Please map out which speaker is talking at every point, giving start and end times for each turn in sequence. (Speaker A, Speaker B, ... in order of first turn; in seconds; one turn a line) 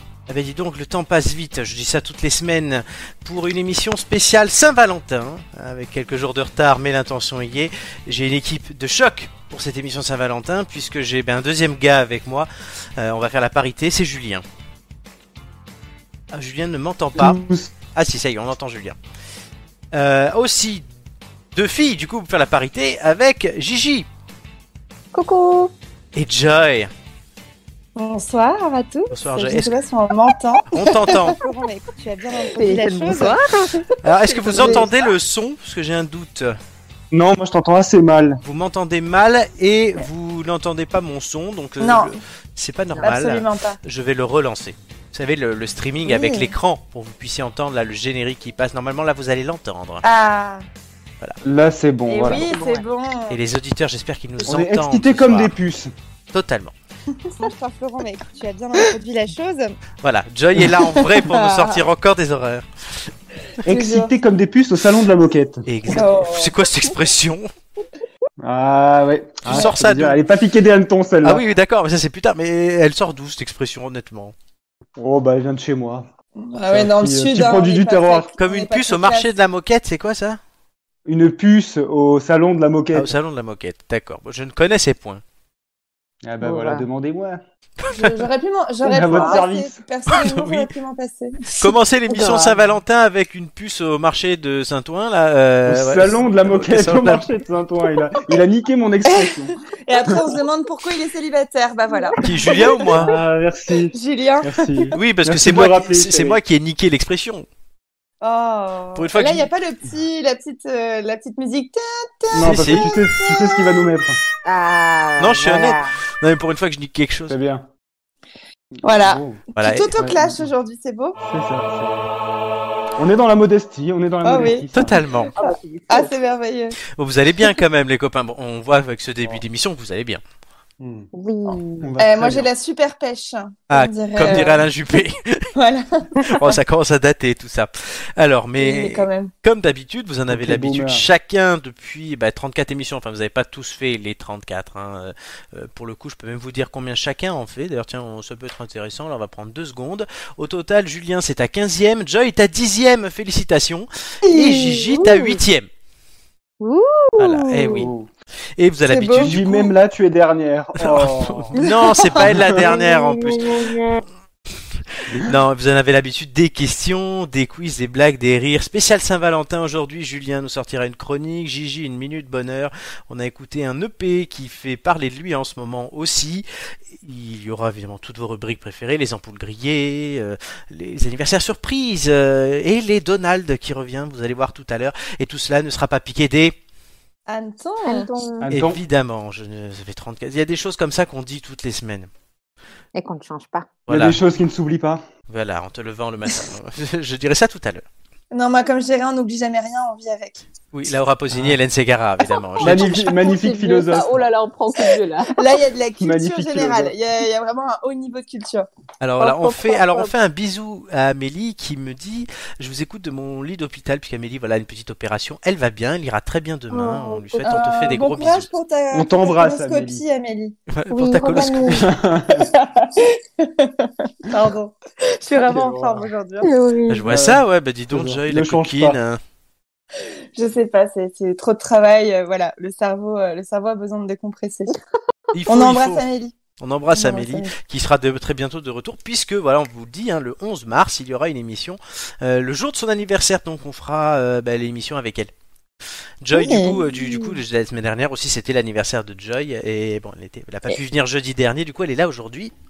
Speaker A: 0.3-14.4
Speaker A: 16.3-17.4
Speaker B: 17.1-17.7
Speaker A: 17.9-19.0
Speaker A: 19.9-20.8
Speaker A: 21.5-24.1
Speaker C: 25.1-25.7
Speaker A: 26.1-26.9
Speaker D: 27.9-33.4
Speaker A: 29.1-29.7
Speaker A: 30.7-31.4
Speaker C: 32.5-34.9
Speaker A: 34.0-36.5
Speaker D: 34.5-34.9
Speaker B: 37.1-38.4
Speaker A: 38.4-50.0
Speaker D: 41.8-42.1
Speaker D: 43.0-43.8
Speaker D: 46.0-46.5
Speaker D: 50.0-50.7
Speaker B: 51.4-52.4
Speaker D: 52.1-53.4
Speaker C: 52.3-52.8
Speaker A: 53.3-55.5
Speaker B: 54.5-55.9
Speaker A: 56.3-56.7
Speaker D: 57.2-59.8
Speaker A: 60.0-63.1
Speaker D: 60.6-61.8
Speaker D: 63.6-64.1
Speaker B: 63.6-66.0
Speaker A: 65.7-67.5
Speaker D: 65.9-66.5
Speaker B: 68.4-71.4
Speaker A: 69.4-70.2
Speaker A: 71.2-74.3
Speaker B: 75.0-76.1
Speaker D: 76.4-79.3
Speaker B: 76.7-78.3
Speaker A: 78.4-80.4
Speaker B: 81.0-83.1
Speaker A: 82.9-85.2
Speaker B: 86.2-87.4
Speaker C: 86.4-86.9
Speaker A: 87.8-88.3
Speaker D: 87.9-91.7
Speaker B: 88.8-89.8
Speaker A: 90.1-90.7
Speaker A: 91.5-97.3
Speaker B: 92.1-92.6
Speaker B: 95.6-99.5
Speaker D: 99.1-102.9
Speaker B: 100.1-100.3
Speaker A: 102.2-103.1
Speaker B: 102.8-106.4
Speaker D: 103.9-104.9
Speaker A: 104.9-107.5
Speaker D: 108.2-113.9
Speaker A: 108.9-109.5
Speaker B: 112.3-114.2
Speaker A: 112.4-112.9
Speaker C: 114.4-115.9
Speaker A: 115.2-117.4
Speaker B: 117.3-117.7
Speaker B: 118.8-119.4
Speaker D: 118.8-121.2
Speaker A: 119.5-119.9
Speaker B: 120.0-120.5
Speaker B: 121.2-122.0
Speaker B: 123.0-125.0
Speaker D: 124.2-124.8
Speaker A: 124.7-125.3
Speaker D: 125.3-126.8
Speaker C: 125.4-126.1
Speaker A: 126.9-130.2
Speaker B: 130.8-131.1
Speaker C: 131.1-131.9
Speaker D: 131.5-134.6
Speaker B: 131.8-132.5
Speaker A: 133.7-135.5
Speaker B: 134.2-134.5
Speaker D: 135.6-136.6
Speaker A: 136.2-155.7
Speaker D: 138.6-139.3
Speaker B: 140.3-141.0
Speaker D: 154.2-154.8
Speaker C: 154.9-155.3
Speaker C: 156.6-157.8
Speaker A: 157.2-157.9
Speaker B: 157.7-158.1
Speaker A: 158.6-159.4
Speaker D: 158.8-159.7
Speaker B: 159.2-161.5
Speaker A: 160.8-163.5
Speaker B: 162.3-162.7
Speaker C: 162.7-164.0
Speaker B: 165.1-165.3
Speaker A: 165.2-176.4
Speaker A: 177.0-186.6
Speaker D: 187.3-188.1
Speaker C: 187.8-188.5
Speaker B: 188.4-188.8
Speaker A: 188.5-192.1
Speaker C: 192.9-193.7
Speaker A: 193.9-194.2
Speaker B: 193.9-195.0
Speaker A: 195.3-197.8
Speaker D: 198.3-200.4
Speaker A: 200.7-203.0
Speaker B: 201.3-201.6
Speaker B: 202.6-204.2
Speaker C: 202.6-205.6
Speaker D: 205.3-208.7
Speaker B: 206.0-206.9
Speaker A: 209.0-218.5
Speaker C: 209.2-210.1
Speaker C: 216.7-217.6
Speaker D: 217.4-220.6
Speaker B: 218.9-220.0
Speaker A: 220.7-221.9
Speaker C: 220.9-221.8
Speaker D: 221.3-221.8
Speaker B: 221.7-222.5
Speaker D: 222.3-226.5
Speaker B: 225.3-226.1
Speaker C: 226.4-227.0
Speaker A: 226.9-229.2
Speaker B: 227.1-229.0
Speaker D: 230.3-234.7
Speaker A: 235.3-236.0
Speaker D: 235.5-236.3
Speaker A: 236.6-245.3
Speaker D: 236.9-237.5
Speaker A: 246.2-252.5
Speaker D: 246.3-246.8